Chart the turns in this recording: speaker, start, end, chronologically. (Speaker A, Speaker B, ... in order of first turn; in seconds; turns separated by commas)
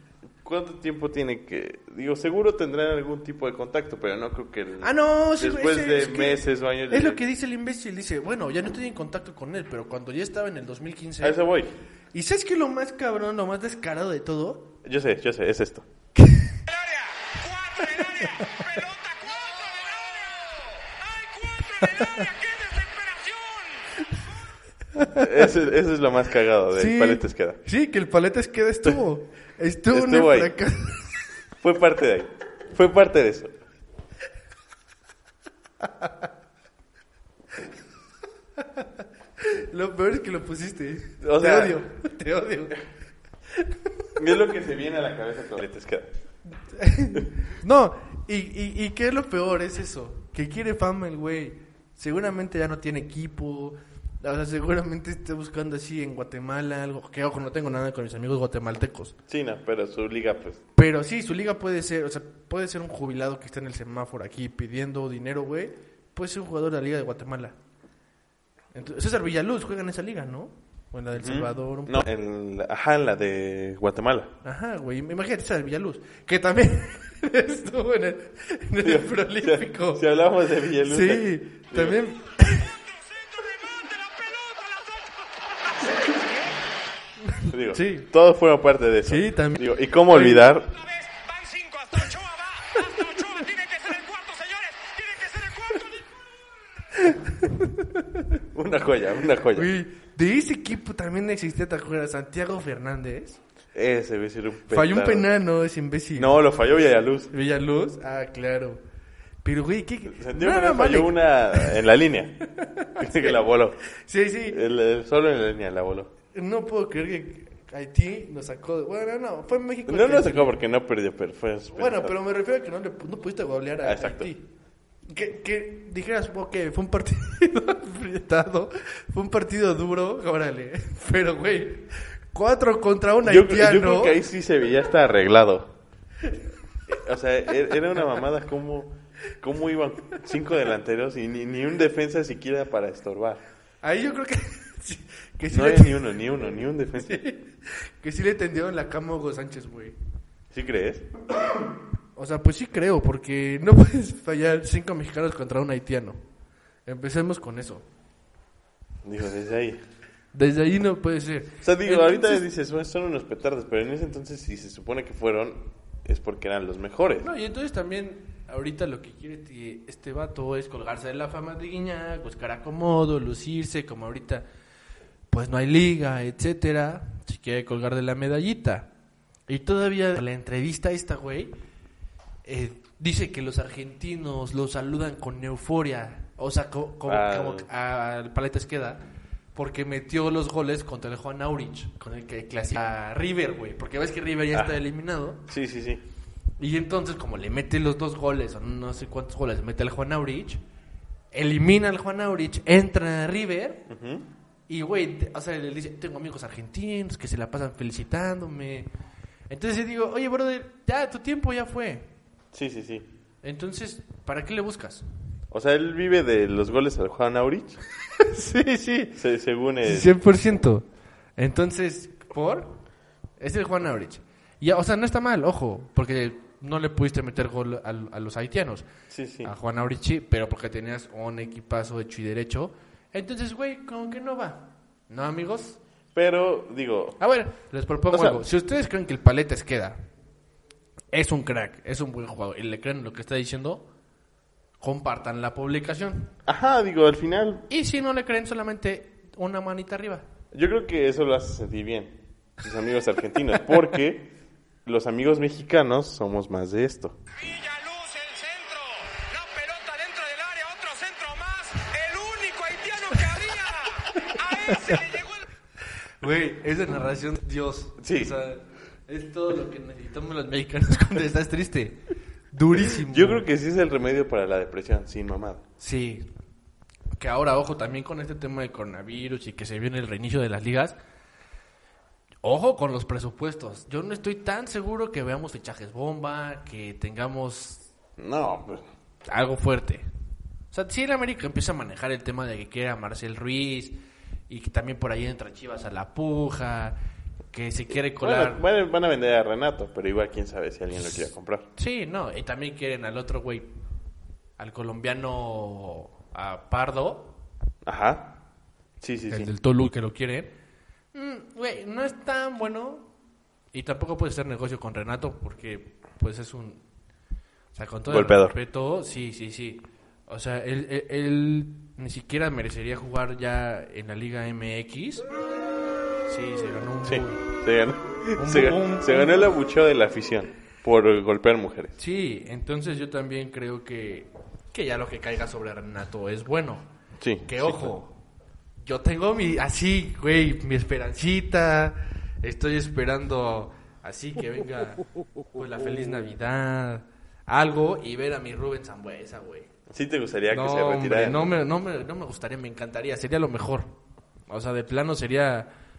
Speaker A: 0.4-7.2, Speaker B: 4.8-11.4, Speaker A: 11.2-11.7, Speaker B: 12.1-14.7, Speaker A: 14.8-15.8, Speaker C: 16.6-23.9, Speaker B: 21.8-22.2, Speaker B: 24.9-25.4, Speaker A: 25.1-27.6, Speaker B: 26.7-31.2, Speaker A: 29.9-30.5, Speaker A: 31.6-33.5, Speaker B: 35.8-36.1, Speaker B: 38.6-38.9, Speaker B: 39.4-42.9, Speaker A: 41.2-41.8, Speaker B: 43.5-44.1, Speaker A: 44.2-46.1, Speaker B: 46.7-59.1, Speaker A: 59.3-60.6, Speaker B: 60.8-67.5, Speaker B: 68.7-72.0, Speaker A: 71.2-74.3, Speaker B: 74.4-80.0, Speaker A: 78.8-82.0, Speaker B: 80.8-82.7, Speaker C: 82.4-86.6, Speaker B: 87.3-88.1, Speaker A: 87.5-90.7, Speaker B: 89.0-90.5, Speaker C: 90.6-96.1, Speaker B: 97.0-98.2, Speaker A: 98.5-99.7, Speaker B: 99.5-103.4, Speaker A: 103.7-105.3, Speaker B: 104.7-106.3, Speaker A: 106.2-107.3, Speaker B: 107.3-108.8, Speaker B: 109.4-111.8, Speaker A: 110.1-112.4, Speaker B: 112.5-113.4, Speaker A: 113.0-113.8, Speaker B: 114.0-114.6, Speaker A: 114.5-116.1, Speaker B: 116.3-120.6, Speaker A: 119.9-122.1, Speaker B: 121.7-124.5, Speaker A: 123.8-124.3, Speaker B: 125.1-134.2, Speaker A: 133.2-135.7, Speaker A: 136.9-143.4, Speaker B: 143.8-146.3, Speaker A: 145.5-147.2, Speaker B: 147.0-149.9, Speaker A: 150.5-151.1, Speaker B: 152.2-156.2, Speaker B: 156.8-157.8, Speaker A: 159.0-159.8, Speaker B: 160.3-162.4, Speaker A: 161.6-167.3, Speaker B: 167.2-174.4, Speaker B: 175.3-178.9, Speaker B: 179.5-181.6, Speaker B: 182.4-189.0, Speaker A: 187.1-187.7, Speaker B: 189.5-195.4, Speaker A: 195.5-196.0, Speaker B: 196.6-200.6, Speaker B: 201.3-203.9, Speaker A: 203.9-204.3, Speaker B: 204.7-208.9, Speaker B: 209.5-212.1, Speaker A: 212.5-213.1, Speaker B: 213.4-215.0, Speaker A: 215.5-217.8, Speaker B: 218.2-219.2, Speaker A: 219.2-220.1, Speaker B: 219.8-220.8, Speaker B: 221.4-222.8, Speaker B: 223.4-228.9, Speaker A: 229.1-229.5, Speaker B: 229.4-235.8, Speaker A: 236.1-237.2, Speaker B: 237.2-240.0, Speaker A: 238.1-238.4, Speaker B: 241.1-243.8, Speaker B: 244.8-246.3, Speaker A: 246.4-247.7, Speaker B: 247.7-250.2, Speaker A: 250.5-254.3, Speaker A: 254.8-257.2, Speaker C: 257.4-265.4, Speaker B: 266.2-273.4, Speaker A: 268.0-268.3, Speaker A: 272.9-275.6, Speaker B: 275.8-276.3, Speaker B: 277.1-281.0, Speaker B: 282.4-287.9, Speaker A: 288.2-288.9, Speaker B: 289.3-290.1, Speaker B: 290.7-294.0, Speaker B: 294.5-297.0, Speaker B: 297.5-298.6, Speaker A: 298.2-301.6, Speaker B: 301.8-303.7, Speaker B: 304.6-307.3, Speaker A: 307.8-308.4, Speaker A: 309.0-309.5, Speaker B: 309.3-310.5, Speaker B: 311.1-313.1, Speaker B: 313.7-316.8, Speaker B: 317.7-325.2, Speaker A: 318.1-318.5, Speaker B: 326.3-327.4, Speaker A: 327.0-331.9, Speaker B: 328.4-329.5, Speaker B: 332.0-336.9, Speaker A: 337.2-337.9, Speaker B: 337.5-338.1, Speaker B: 338.8-349.7, Speaker A: 349.9-351.5, Speaker B: 350.5-353.9, Speaker B: 354.5-355.7